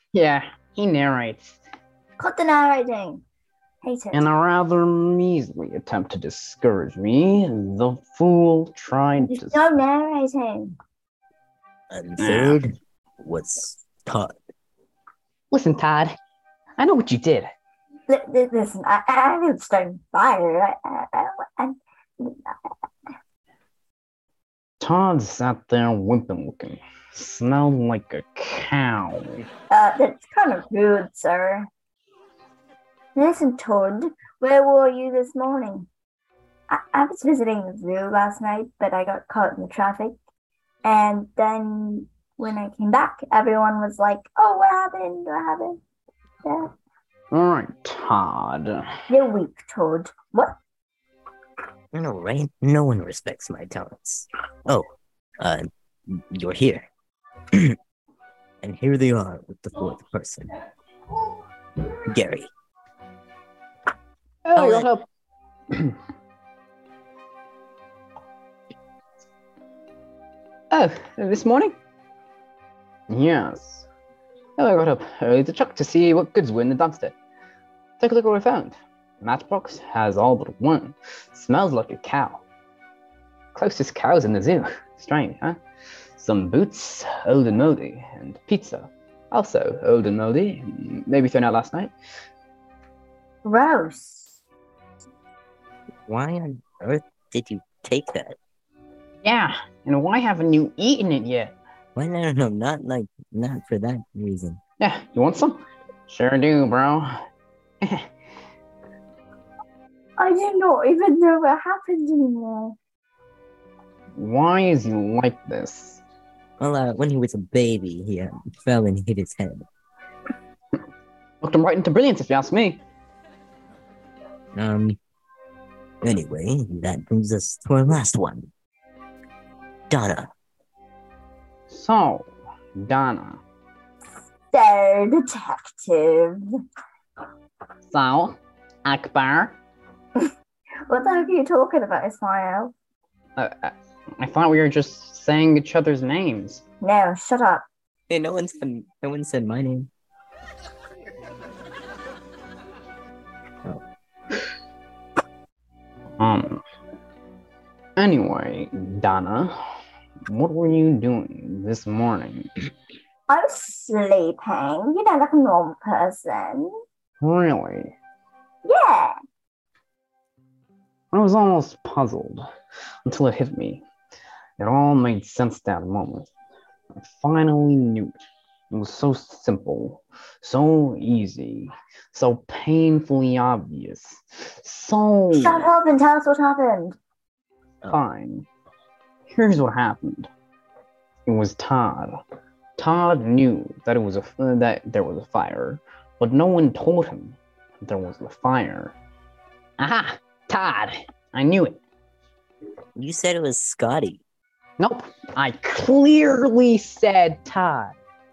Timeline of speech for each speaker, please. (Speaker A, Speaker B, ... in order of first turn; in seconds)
Speaker A: 0.1-1.6, 4.1-9.7, 12.2-12.6, 15.5-16.2, 16.8-17.5, 24.8-29.4, 47.3-48.8, 64.5-65.0, 70.7-71.8, 73.1-73.9, 74.6-77.2, 78.0-82.4, 83.5-85.6, 86.2-91.9, 99.2-101.5, 104.8-107.2, 114.2-116.0, 121.4-122.8, 131.7-133.4, 137.9-139.6, 143.4-146.6, 156.2-156.6, 158.0-159.5, 160.3-162.5, 167.2-168.0, 171.1-172.5, 173.1-173.8, 174.6-176.3, 177.0-178.2, 178.7-185.7, 187.9-188.5, 189.3-190.3, 191.3-192.2, 192.8-199.0, 199.8-201.8, 204.8-208.0
Speaker B: 2.2-3.2, 3.8-4.3, 9.3-10.7, 18.1-22.6, 29.7-31.7, 33.1-35.9, 36.7-40.2, 40.8-45.8, 46.4-46.7, 49.1-50.5, 93.4-94.4, 110.2-112.8, 134.5-136.4, 140.9-142.8, 146.8-147.7, 163.3-166.7, 168.7-169.2, 185.3-187.0
Speaker C: 11.9-14.4, 51.9-54.9, 55.4-56.9, 58.6-60.5, 62.1-62.5, 64.5-64.9, 96.1-98.4, 102.0-104.6, 116.6-119.7, 124.6-125.0, 126.0-128.5, 129.9-130.3, 148.1-149.9, 203.0-204.2